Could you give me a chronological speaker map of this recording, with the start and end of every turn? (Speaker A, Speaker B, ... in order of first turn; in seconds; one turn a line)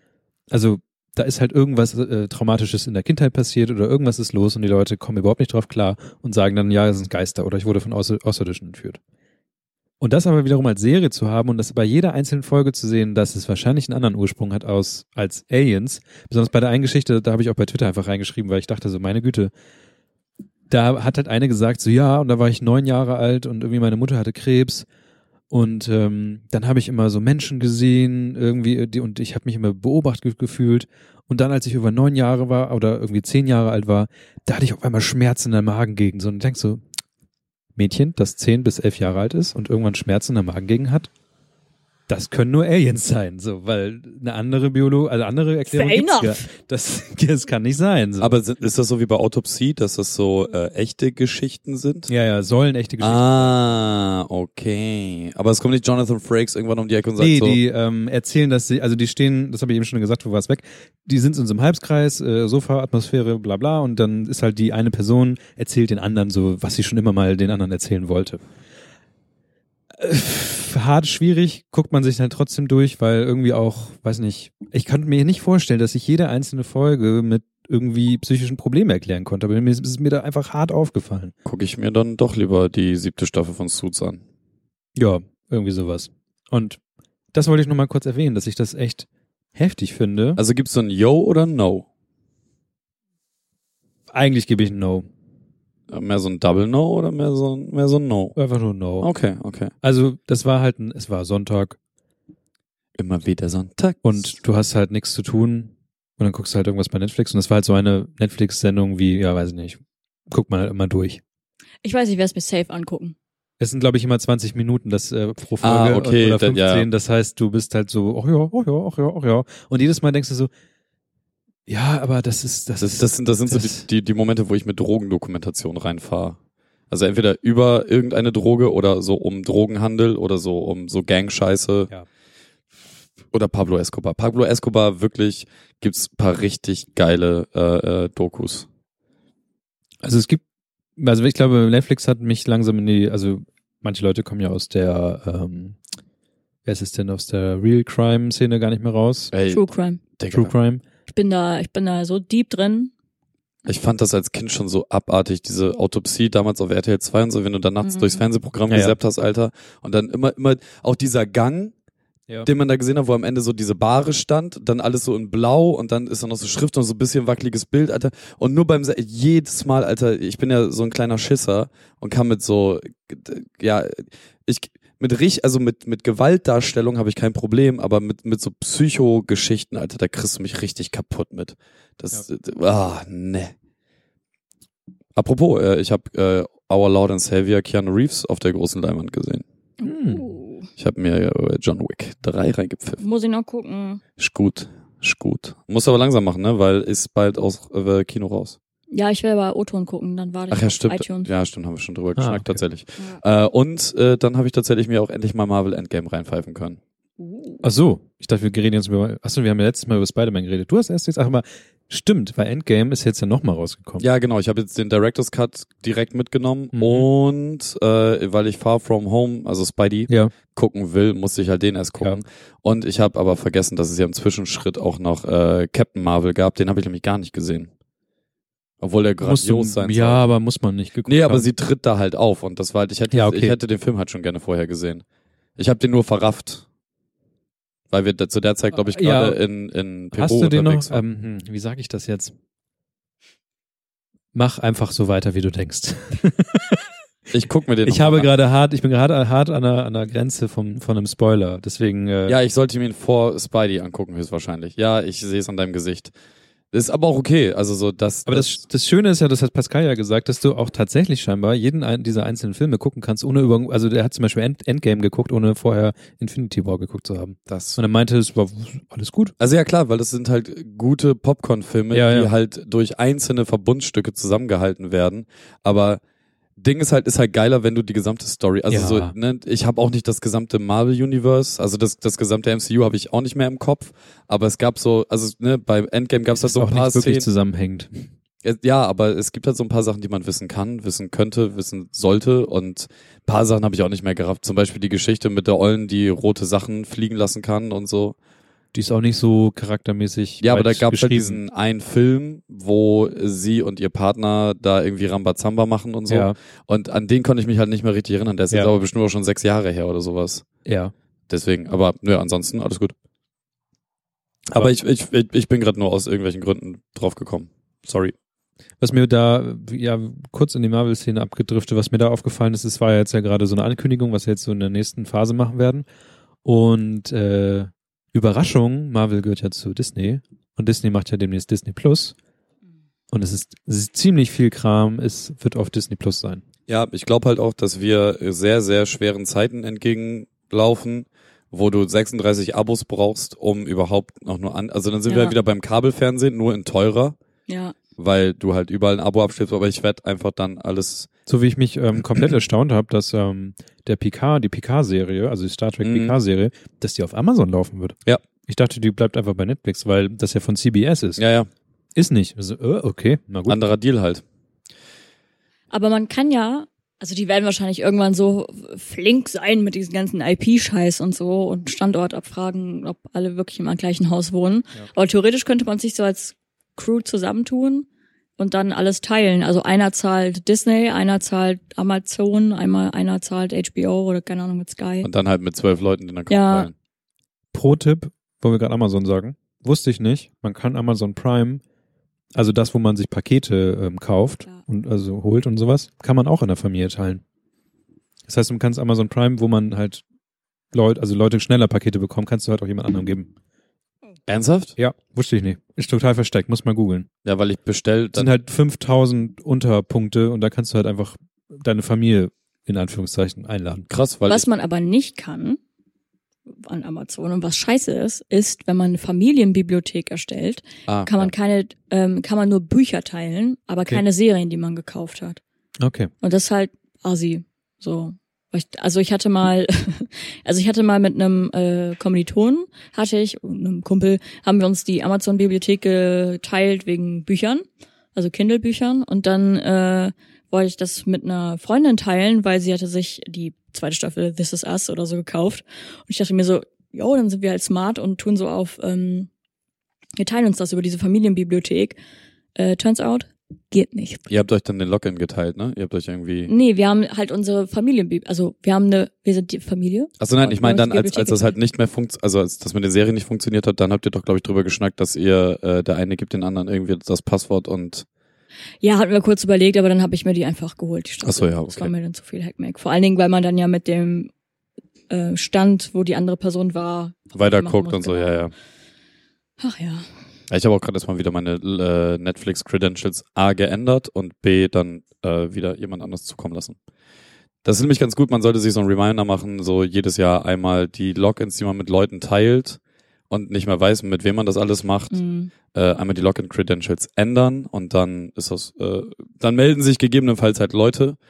Speaker A: 0.5-9.0
Speaker A: 10.0-19.5
Speaker A: 20.7-24.9
Speaker A: 25.5-36.8
Speaker A: 37.8-41.1
Speaker A: 42.1-48.4
Speaker B: 45.7-46.5
Speaker C: 48.2-52.1
Speaker A: 52.1-53.7
Speaker C: 53.0-57.6
Speaker A: 57.2-68.4
Speaker A: 69.9-81.3
Speaker C: 81.4-84.2
Speaker A: 85.0-86.8
Speaker A: 87.3-90.4
Speaker C: 90.4-91.8
Speaker A: 94.1-95.1
Speaker C: 95.9-98.4
Speaker A: 98.3-99.1
Speaker C: 99.0-99.7
Speaker A: 99.8-101.8
Speaker C: 103.0-104.3
Speaker A: 104.0-111.2
Speaker B: 111.8-113.1
Speaker A: 113.6-120.5
Speaker C: 115.6-116.9
Speaker A: 121.7-123.8
Speaker C: 122.8-126.4
Speaker C: 126.9-131.9
Speaker C: 133.3-138.7
Speaker A: 140.0-140.4
Speaker A: 141.0-145.8
Speaker A: 146.6-149.3
Speaker C: 149.3-149.6
Speaker B: 149.5-150.0
Speaker C: 150.2-150.5
Speaker A: 150.3-150.8
Speaker B: 151.1-152.9
Speaker C: 153.7-161.7
Speaker B: 157.8-158.2
Speaker A: 158.7-158.9
Speaker C: 162.4-183.5
Speaker C: 185.2-189.4
Speaker B: 189.8-190.7
Speaker A: 189.8-190.3
Speaker C: 190.8-193.0
Speaker B: 193.0-194.0
Speaker C: 194.2-198.6
Speaker B: 198.9-201.3
Speaker C: 200.5-206.8
Speaker A: 202.2-202.6
Speaker B: 207.2-207.6
Speaker A: 207.6-214.0
Speaker C: 214.0-227.7
Speaker A: 216.7-217.1
Speaker A: 220.1-220.3
Speaker C: 228.8-230.2
Speaker A: 229.2-231.5
Speaker C: 231.1-235.0
Speaker A: 233.1-233.6
Speaker C: 235.6-236.6
Speaker C: 237.9-241.0
Speaker A: 238.8-239.4
Speaker A: 240.1-242.3
Speaker A: 244.3-246.9
Speaker C: 247.3-248.3
Speaker A: 247.8-252.4
Speaker C: 252.3-256.1
Speaker C: 256.7-258.6
Speaker A: 258.3-269.3
Speaker C: 267.5-267.8
Speaker C: 269.4-276.0
Speaker A: 271.9-272.3
Speaker C: 276.6-287.2
Speaker A: 278.7-279.1
Speaker A: 286.4-288.1
Speaker C: 288.4-298.1
Speaker A: 298.7-301.4
Speaker C: 300.4-310.4
Speaker A: 306.1-306.4
Speaker A: 310.6-310.9
Speaker C: 311.3-312.9
Speaker C: 314.5-318.1
Speaker A: 318.8-325.8
Speaker A: 326.4-332.1
Speaker A: 333.1-336.4
Speaker C: 336.7-347.1
Speaker B: 345.1-345.4
Speaker B: 347.5-347.7
Speaker C: 348.0-351.1
Speaker A: 351.3-361.2
Speaker C: 355.8-356.1
Speaker C: 361.2-361.5
Speaker A: 361.9-363.6
Speaker C: 363.5-364.2
Speaker B: 365.7-377.9
Speaker B: 378.4-385.1
Speaker C: 385.0-386.7
Speaker B: 386.3-386.7
Speaker A: 387.5-391.6
Speaker A: 392.3-397.2
Speaker A: 398.3-400.0
Speaker A: 400.7-403.3
Speaker C: 404.3-404.7
Speaker A: 404.8-407.1
Speaker C: 407.2-408.3
Speaker A: 408.1-413.9
Speaker C: 413.9-414.4
Speaker B: 414.3-415.6
Speaker B: 416.5-425.4
Speaker C: 420.9-421.3
Speaker A: 425.8-426.1
Speaker B: 426.2-449.3
Speaker B: 450.2-452.0
Speaker B: 452.5-454.2
Speaker C: 454.3-456.5
Speaker B: 456.5-461.5
Speaker C: 460.2-468.0
Speaker B: 468.8-474.3
Speaker C: 471.2-471.9
Speaker B: 475.1-478.5
Speaker C: 477.3-478.5
Speaker B: 479.6-480.0
Speaker C: 480.5-486.8
Speaker C: 487.6-492.8
Speaker C: 493.3-495.2
Speaker B: 495.1-495.5
Speaker C: 495.7-501.2